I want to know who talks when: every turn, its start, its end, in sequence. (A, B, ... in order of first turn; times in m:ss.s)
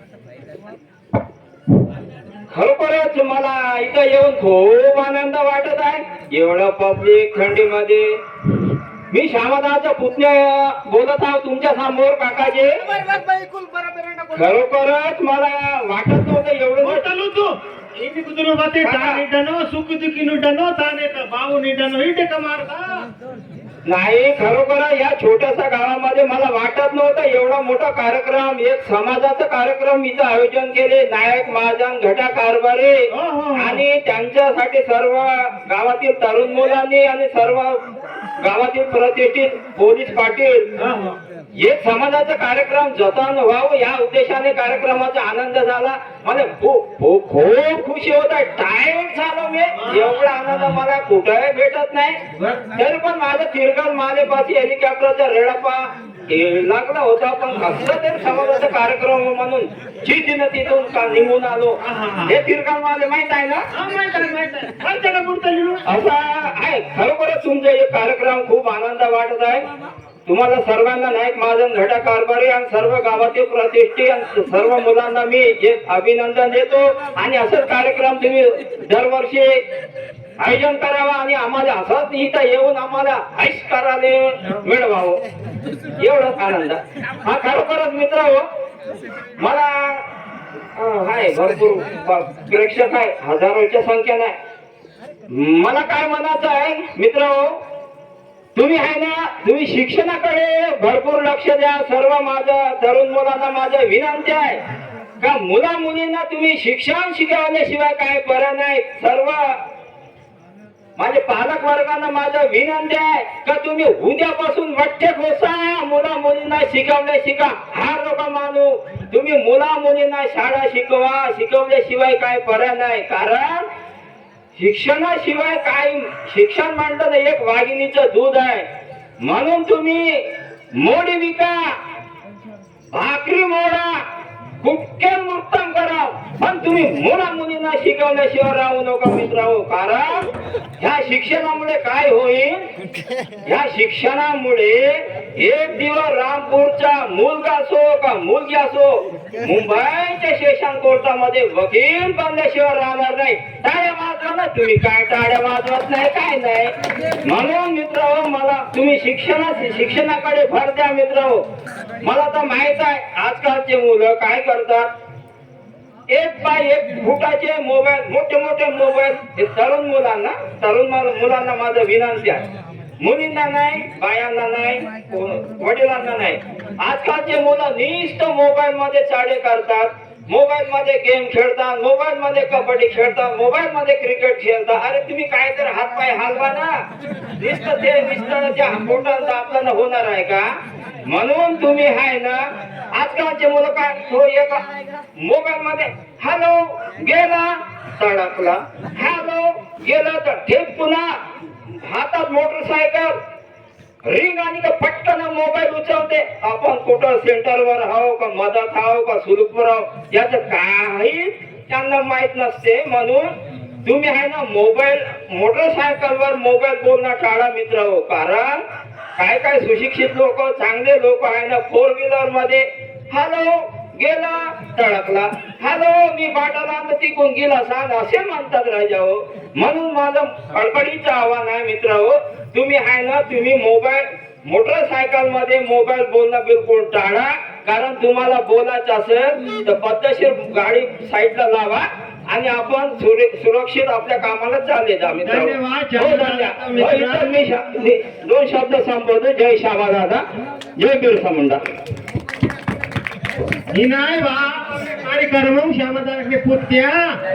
0:02.5-0:08.2 A
0:09.1-0:12.8 A
0:12.9-0:14.3 B
0:14.3-0:17.1 A
0:17.0-0:18.9 B
0:18.8-0:19.2 A
0:21.8-0:22.1 B
0:23.8-0:33.0 A
0:33.1-0:33.8 B
0:33.5-0:37.8 A
0:38.4-0:40.6 A
0:40.8-0:41.2 B
0:41.6-0:52.2 A
0:49.8-0:50.1 B
0:52.4-0:52.6 B
0:52.8-1:03.6 A
1:01.8-1:02.3 B
1:03.8-1:05.8 B
1:05.8-1:09.7 A
1:10.2-1:19.6 A
1:20.4-1:25.2 A
1:26.0-1:28.4 A
1:29.4-1:30.0 A
1:30.8-1:34.3 A
1:35.3-1:37.6 A
1:38.5-1:44.6 A
1:45.2-1:49.6 A
1:51.0-2:03.6 A
2:04.6-2:08.6 A
2:09.2-2:10.2 A
2:10.8-2:11.7 A
2:12.9-2:14.0 A
2:14.6-2:20.3 A
2:20.8-2:22.6 A
2:23.4-2:36.7 A
2:37.2-2:41.4 A
2:42.0-2:44.9 A
2:46.1-2:52.5 A
2:53.0-3:06.8 A
3:07.4-3:10.5 A
3:11.1-3:12.4 A
3:12.9-3:14.6 A
3:15.2-3:21.1 A
3:21.7-3:23.1 A
3:24.1-3:33.3 A
3:33.8-3:38.6 A
3:39.2-4:10.2 A
4:05.3-4:07.2 B
4:10.8-4:11.6 A
4:14.0-4:17.0 B